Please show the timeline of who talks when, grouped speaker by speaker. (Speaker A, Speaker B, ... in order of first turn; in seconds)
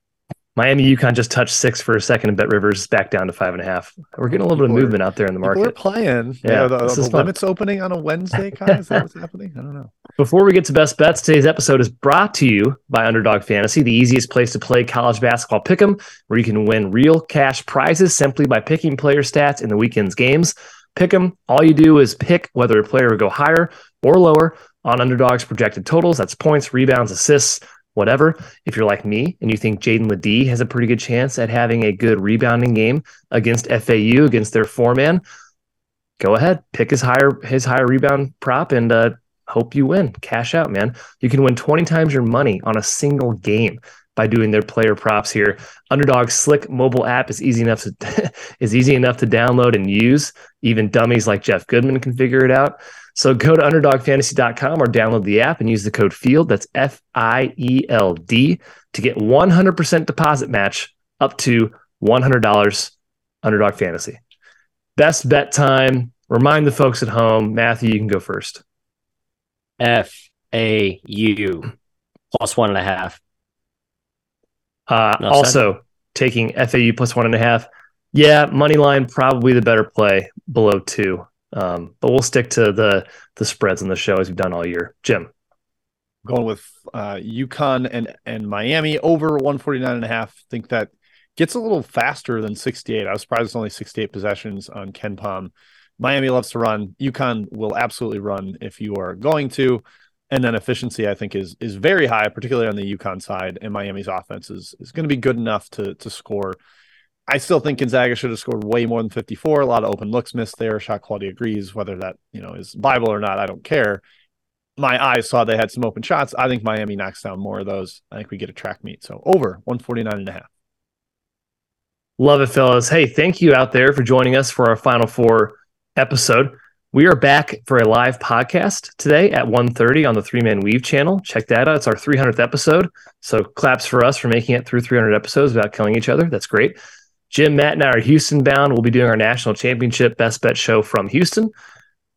Speaker A: 0.6-5.8, 6.4-7.3, 10.2-35.2, 36.2-64.2, 65.0-68.6, 74.9-85.3, 122.2-136.8, 137.3-141.5
Speaker B: 4.5-9.9, 86.2-106.6, 107.3-114.0, 114.8-120.5
Speaker C: 69.8-71.7, 72.3-73.2, 75.2-75.6